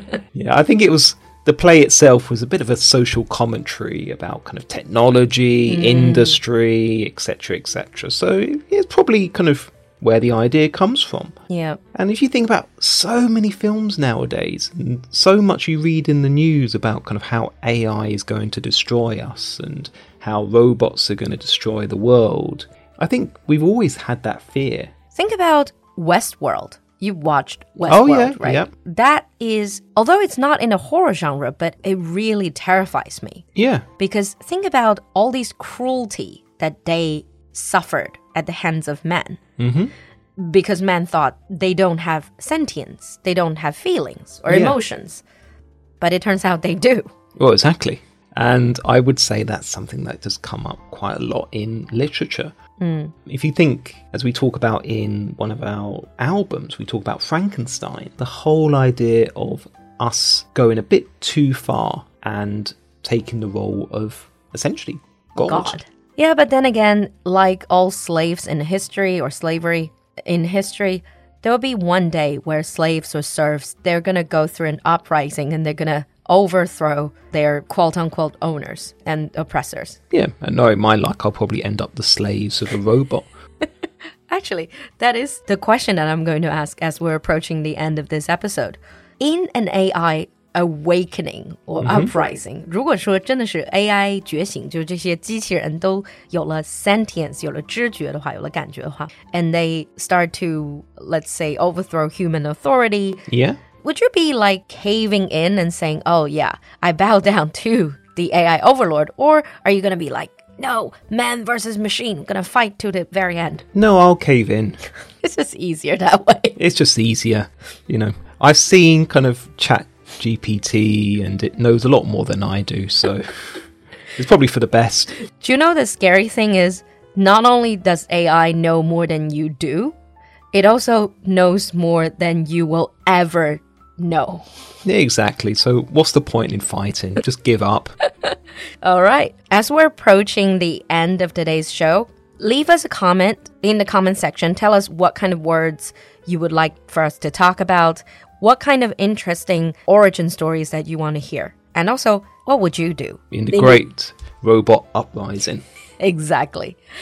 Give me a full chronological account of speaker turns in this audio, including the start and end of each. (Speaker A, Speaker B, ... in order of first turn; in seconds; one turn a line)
Speaker A: 0.3-11.3
Speaker B: 5.7-6.4
Speaker B: 11.5-11.8
Speaker A: 11.9-24.9
Speaker B: 25.1-33.4
Speaker A: 27.9-28.7
Speaker A: 33.5-33.9
Speaker B: 34.0-39.4
Speaker A: 39.6-39.9
Speaker B: 40.4-45.2
Speaker A: 44.5-44.8
Speaker B: 46.0-47.1
Speaker A: 47.4-52.5
Speaker B: 52.8-53.1
Speaker A: 53.2-65.8
Speaker B: 65.3-80.0
Speaker A: 80.1-83.3
Speaker B: 84.3-103.2
Speaker A: 91.8-92.1
Speaker A: 103.3-103.6
Speaker B: 103.8-113.7
Speaker A: 113.7-114.8
Speaker B: 115.2-116.6
Speaker A: 116.6-123.6
Speaker A: 124.2-125.1
Speaker B: 125.4-129.9
Speaker B: 130.5-134.4
Speaker A: 134.8-137.9
Speaker B: 138.2-153.8
Speaker A: 153.3-155.6
Speaker B: 156.0-156.8